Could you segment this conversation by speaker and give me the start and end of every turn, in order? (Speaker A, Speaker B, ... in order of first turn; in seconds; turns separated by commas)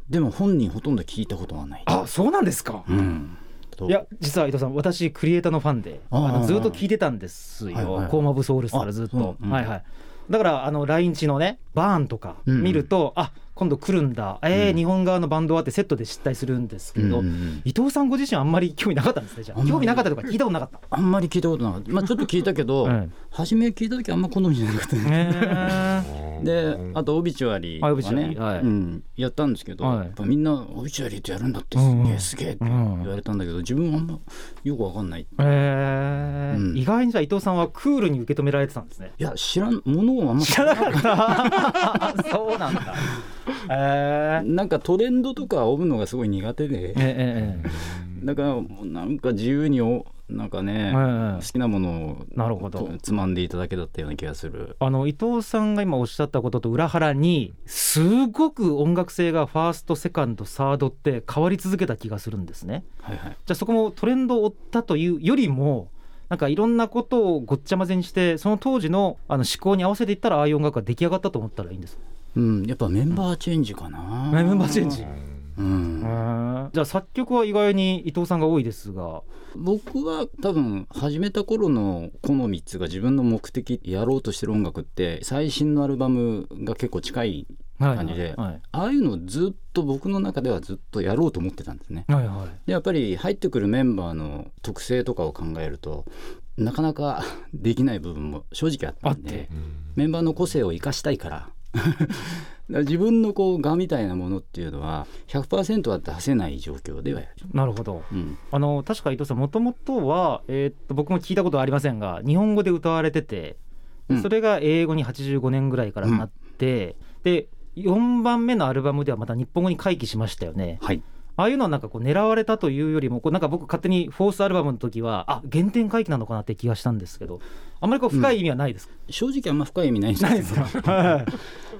Speaker A: 0.1-1.9, Speaker B: 1.9-2.9, Speaker A: 2.9-4.0, Speaker B: 3.9-20.8, Speaker A: 6.1-6.8, Speaker A: 7.7-8.2, Speaker A: 8.7-9.7, Speaker A: 12.5-12.9, Speaker A: 14.5-14.8, Speaker A: 17.0-17.6, Speaker A: 19.6-20.2, Speaker A: 20.9-35.6, Speaker B: 22.8-23.1, Speaker B: 25.0-26.2, Speaker B: 27.8-28.7, Speaker B: 29.8-30.2, Speaker B: 31.8-33.1, Speaker B: 35.4-39.1, Speaker A: 36.5-36.8, Speaker A: 39.2-42.2, Speaker B: 40.4-43.1, Speaker B: 43.6-44.5, Speaker A: 44.4-54.8, Speaker B: 47.0-47.8, Speaker B: 50.9-51.5, Speaker B: 52.4-52.9, Speaker B: 54.8-62.9, Speaker A: 63.0-63.4, Speaker B: 63.5-72.0, Speaker A: 72.3-76.2, Speaker B: 74.3-75.2, Speaker B: 76.0-79.2, Speaker A: 79.5-92.1, Speaker B: 87.8-88.6, Speaker B: 92.1-92.6, Speaker A: 92.7-107.3, Speaker B: 99.0-99.5, Speaker B: 107.5-113.6, Speaker A: 108.1-108.4, Speaker B: 114.1-120.8, Speaker B: 121.4-128.9, Speaker A: 129.1-131.4, Speaker B: 130.2-131.4